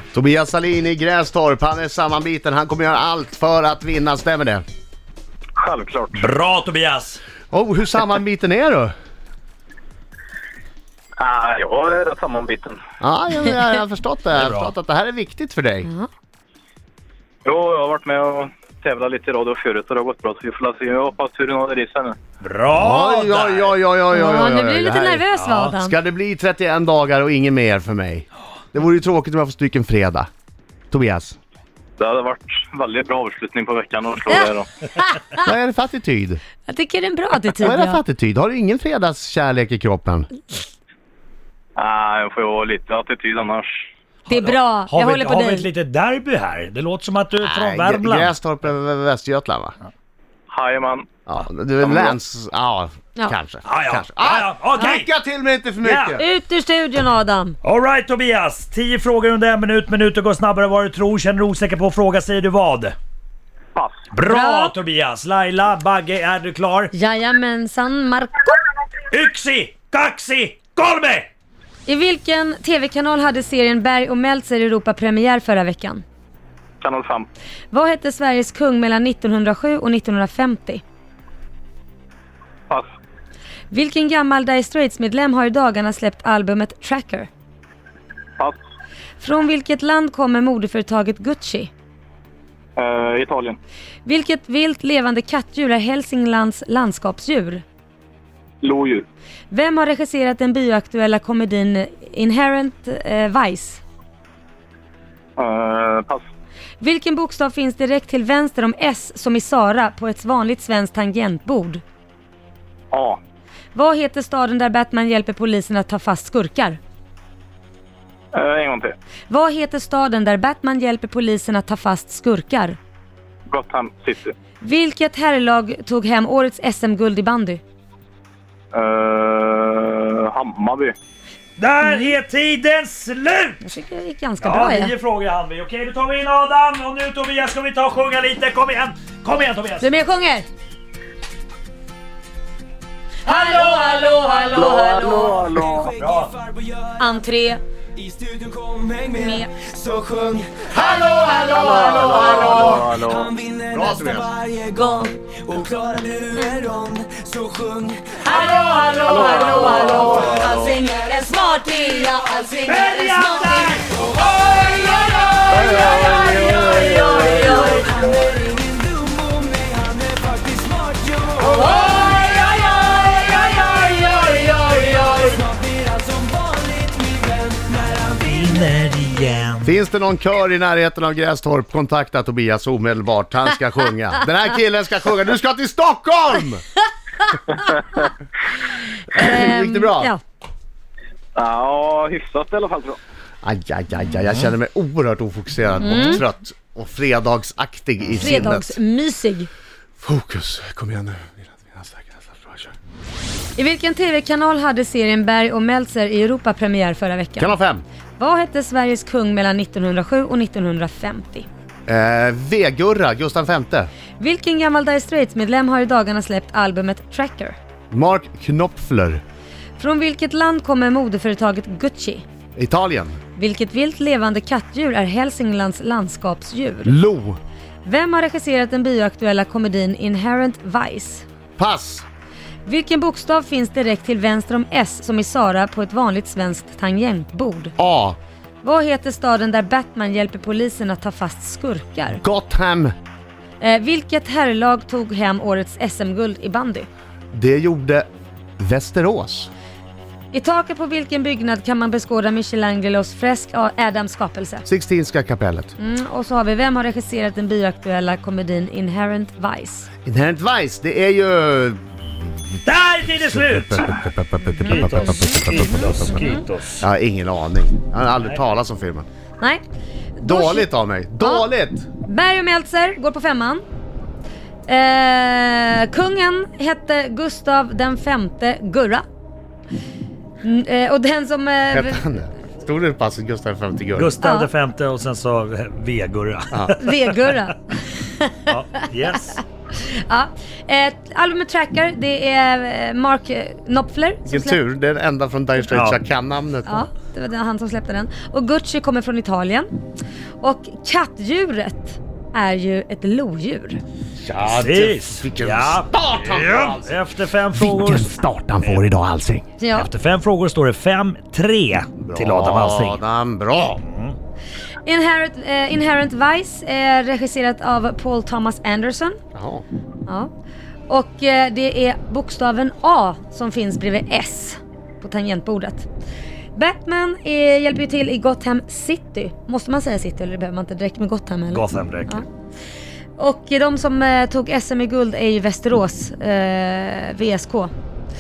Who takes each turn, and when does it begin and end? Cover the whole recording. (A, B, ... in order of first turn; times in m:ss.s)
0:00.1-0:04.6 A
0:05.6-0:06.2 B
0:06.1-0:07.2 C
0:07.5-0:08.9 A
0:11.2-0:12.8 B
0:13.0-0:15.9 A
0:14.3-0:14.7 C
0:15.8-0:16.1 D
0:17.4-0:22.2 B
0:22.4-0:23.8 C
0:22.7-0:30.3 A
0:24.1-0:26.0 D
0:25.3-0:25.8 C
0:30.9-0:31.4 A
0:32.0-0:34.7 B
0:35.0-0:35.4 D
0:35.4-0:36.4 A
0:36.7-0:38.0 D
0:37.6-0:40.3 A
0:41.8-0:43.8 B
0:44.3-0:48.3 C
0:44.3-0:45.7 D
0:47.4-0:49.8 A
0:50.5-0:51.1 B
0:51.3-0:56.2 A
0:51.8-0:52.2 B
0:53.6-0:55.1 C
0:55.8-0:56.2 C
0:56.2-0:57.6 D
0:57.6-1:03.0 C
1:03.8-1:04.1 B
1:04.1-1:06.9 C
1:04.2-1:04.8 D
1:06.9-1:08.5 D
1:09.1-1:11.3 C
1:11.9-1:16.0 D
1:16.8-1:17.3 B
1:17.7-1:20.8 D
1:23.7-1:27.3 D
1:29.2-1:31.7 D
1:32.8-1:33.6 B
1:34.0-1:37.6 D
1:38.6-1:39.1 B
1:39.5-1:43.8 D
1:45.4-1:46.2 B
1:46.8-1:51.8 D
1:52.9-1:53.2 B
1:53.7-1:56.8 D
1:58.3-1:59.0 B
1:59.3-2:02.8 D
2:03.5-2:04.4 B
2:04.6-2:07.6 D
2:08.7-2:10.9 B
2:11.6-2:13.6 C
2:11.8-2:12.1 D
2:13.6-2:14.9 D
2:14.4-2:19.9 C
2:19.8-2:20.5 D
2:23.2-2:25.5 D
2:24.6-2:25.9 B
2:25.8-2:26.9 E
2:25.9-2:26.3 C
2:27.0-2:27.6 D
2:28.0-2:30.7 E
2:29.1-2:29.6 D
2:30.7-2:32.8 A
2:31.1-2:32.2 D
2:31.6-2:33.3 B
2:32.4-2:34.7 E
2:33.7-2:34.4 A
2:34.7-2:35.2 D
2:35.2-2:38.3 E
2:36.4-2:36.7 D
2:38.2-2:44.0 D
2:39.1-2:40.8 B
2:42.7-2:44.5 C
2:44.9-2:48.0 D
2:45.5-2:47.6 B
2:46.2-2:47.9 C
2:47.9-2:51.6 E
2:51.4-2:53.9 D
2:55.3-2:57.8 E
2:57.9-2:59.8 C
2:59.6-3:06.6 A
3:07.3-3:08.0 D
3:09.1-3:10.2 D
3:09.1-3:10.1 A
3:11.4-3:13.0 B
3:13.4-3:18.8 A
3:15.8-3:16.2 D
3:18.2-3:19.5 D
3:20.0-3:22.7 A
3:23.6-3:27.6 D
3:27.4-3:27.8 A
3:28.2-3:31.5 D
3:31.9-3:33.9 A
3:34.2-3:37.6 D
3:37.9-3:39.2 A
3:39.8-3:42.2 D
3:42.6-3:43.2 A
3:43.4-3:47.0 D
3:46.8-3:47.4 A
3:47.8-3:51.2 D
3:51.6-3:52.1 A
3:52.6-3:57.7 D
3:57.8-3:58.2 A
3:58.6-4:02.2 D
4:02.2-4:02.9 A
4:03.6-4:06.9 D
4:07.3-4:08.1 A
4:08.6-4:09.5 A
4:10.3-4:14.6 D
4:14.7-4:15.7 A
4:15.8-4:19.9 D
4:20.0-4:26.2 A
4:22.6-4:24.0 C
4:24.6-4:26.4 D
4:24.6-4:26.8 C
4:26.8-4:29.1 A
4:30.2-4:30.7 D
4:30.2-4:31.9 A
4:31.2-4:31.5 D
4:32.0-4:33.6 D
4:34.7-4:39.0 D
4:40.4-4:42.0 D
4:41.7-4:44.2 A
4:44.0-4:47.3 C
4:44.2-4:44.5 D
4:46.5-4:46.8 A
4:46.8-4:48.5 D
4:48.5-4:49.4 C
4:49.3-4:54.6 D
4:54.3-4:56.9 A
4:55.7-4:56.0 C
4:56.7-4:59.7 D
5:00.4-5:03.8 D
5:04.2-5:07.0 A
5:04.4-5:08.8 C
5:07.5-5:09.5 A
5:09.6-5:09.9 D
5:09.8-5:13.0 C
5:12.0-5:13.8 A
5:13.8-5:14.2 C
5:14.9-5:19.2 D
5:19.4-5:19.6 A
5:20.9-5:25.9 D
5:26.6-5:32.3 D
5:31.5-5:32.2 C
5:33.2-5:37.7 D